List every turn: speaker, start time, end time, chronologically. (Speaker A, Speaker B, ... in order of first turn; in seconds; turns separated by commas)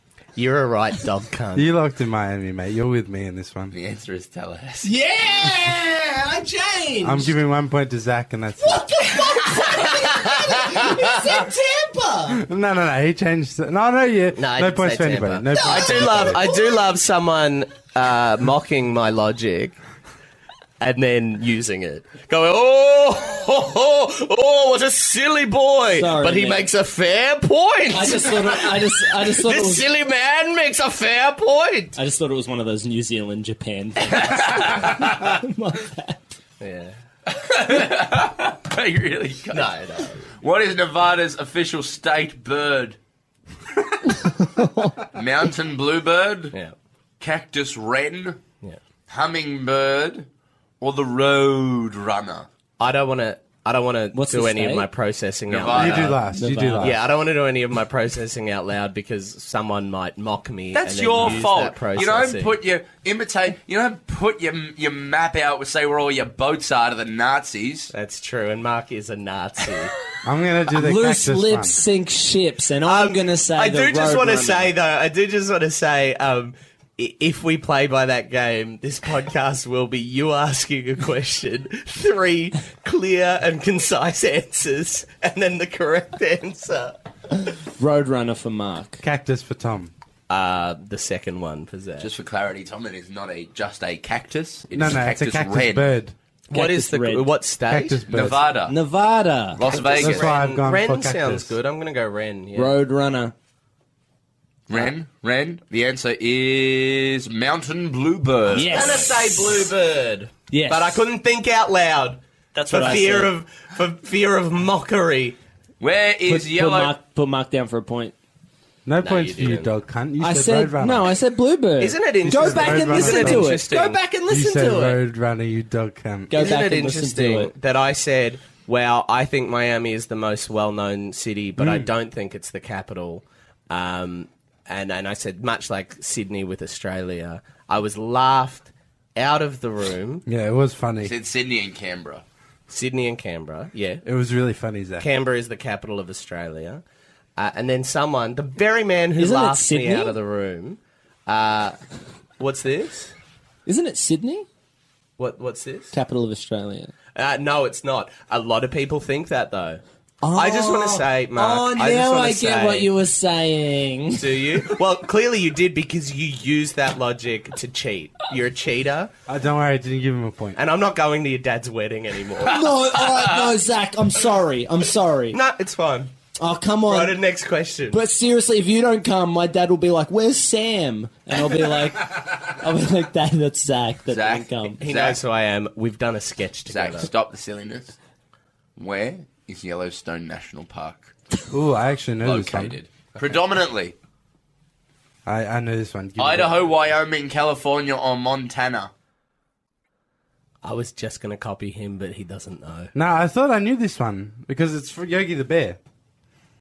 Speaker A: 0.3-1.7, Speaker B: 1.5-3.7, Speaker C: 3.7-4.9, Speaker D: 4.8-7.3, Speaker B: 7.0-8.9, Speaker D: 8.6-12.4, Speaker B: 12.3-16.5, Speaker A: 14.4-19.8, Speaker D: 15.5-16.7, Speaker A: 20.8-31.9, Speaker D: 25.9-26.7, Speaker D: 27.9-29.9, Speaker D: 31.9-36.4, Speaker C: 34.1-35.2, Speaker A: 36.6-36.9, Speaker C: 37.3-39.8, Speaker A: 39.5-40.3, Speaker C: 40.4-43.0, Speaker D: 44.1-45.0, Speaker C: 45.1-46.5, Speaker C: 47.2-48.4, Speaker C: 49.1-50.3, Speaker C: 50.8-52.5, Speaker A: 52.8-56.2, Speaker D: 54.1-54.9, Speaker C: 55.5-56.2, Speaker B: 55.7-57.0, Speaker D: 56.2-57.0, Speaker A: 56.8-62.6, Speaker C: 60.7-67.9, Speaker A: 67.9-69.9, Speaker B: 70.2-71.8, Speaker D: 70.7-74.7, Speaker A: 72.8-87.0, Speaker D: 87.6-89.0, Speaker B: 89.0-89.9, Speaker A: 90.3-92.1, Speaker C: 92.0-95.9, Speaker B: 94.7-96.1, Speaker A: 96.5-98.1, Speaker D: 96.5-97.3, Speaker B: 97.7-98.4, Speaker C: 98.1-98.7, Speaker D: 98.7-99.6, Speaker C: 99.5-100.3, Speaker A: 99.7-102.7, Speaker B: 100.0-101.5, Speaker D: 102.5-103.3, Speaker C: 104.7-109.1, Speaker D: 108.5-109.7, Speaker A: 108.5-115.4, Speaker D: 110.5-111.0, Speaker D: 112.5-113.3, Speaker C: 115.8-117.0, Speaker D: 116.2-118.1, Speaker B: 118.8-121.1, Speaker A: 119.0-119.7, Speaker D: 120.2-125.0, Speaker A: 121.8-124.0, Speaker B: 122.3-123.6, Speaker B: 124.3-126.3, Speaker D: 126.3-127.5, Speaker A: 126.3-140.2, Speaker B: 131.6-131.9, Speaker B: 140.2-141.1, Speaker C: 141.0-142.2, Speaker A: 142.7-144.0, Speaker B: 144.0-145.1, Speaker A: 145.0-146.8, Speaker A: 147.4-151.8, Speaker D: 149.2-150.2, Speaker A: 152.4-153.1, Speaker D: 153.7-154.5, Speaker A: 155.2-155.9, Speaker D: 155.9-156.9, Speaker A: 157.1-159.8, Speaker D: 160.2-164.7, Speaker A: 160.3-162.9, Speaker A: 164.2-169.1, Speaker B: 169.3-170.6, Speaker A: 170.5-172.7, Speaker D: 172.4-175.4, Speaker A: 175.3-176.1, Speaker D: 176.4-177.2, Speaker A: 176.9-178.0, Speaker D: 177.9-184.8, Speaker C: 184.1-185.2, Speaker A: 184.8-187.1, Speaker C: 186.7-188.0, Speaker C: 188.8-191.1, Speaker B: 191.5-192.8, Speaker C: 192.2-193.9, Speaker B: 195.2-196.7, Speaker C: 196.2-198.9, Speaker A: 200.6-202.9, Speaker B: 202.9-205.8